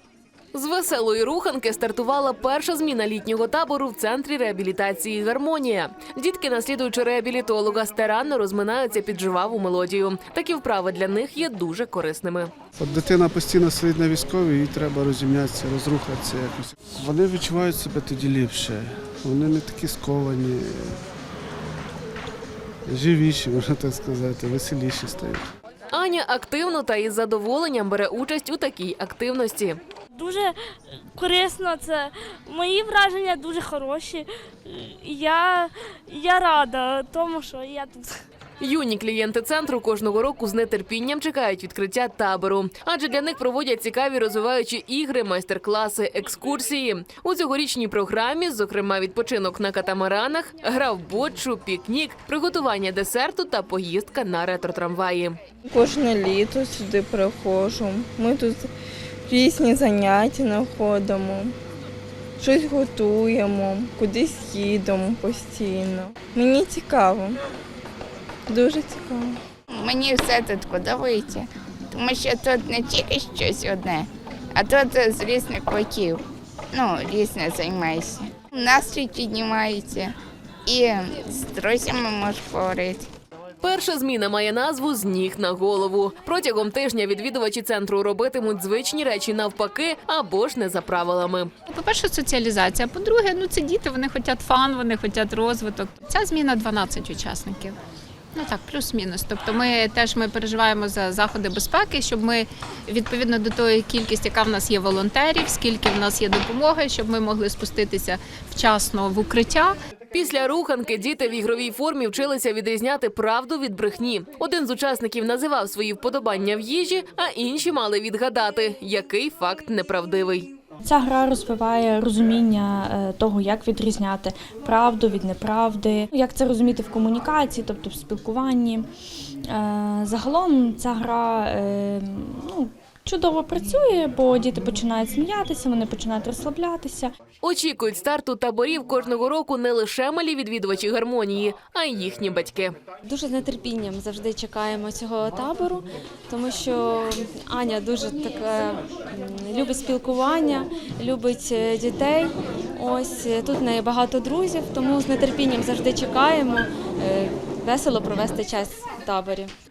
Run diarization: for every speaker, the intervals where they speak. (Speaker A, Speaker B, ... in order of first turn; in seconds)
Speaker A: 0.5-12.5, 25.9-29.8, 38.6-55.4, 83.6-91.5, 110.1-120.5, 137.4-142.7
Speaker B: 12.8-21.0, 22.9-25.5
Speaker C: 30.2-30.5, 31.1-38.1
Speaker D: 55.7-58.7, 59.3-61.5, 62.4-67.3, 68.5-69.3
Speaker E: 69.7-76.2, 76.7-80.1, 80.7-83.1
Speaker F: 91.7-97.8, 98.3-109.8
Speaker G: 120.8-128.8, 129.5-137.1
Speaker H: 143.1-159.5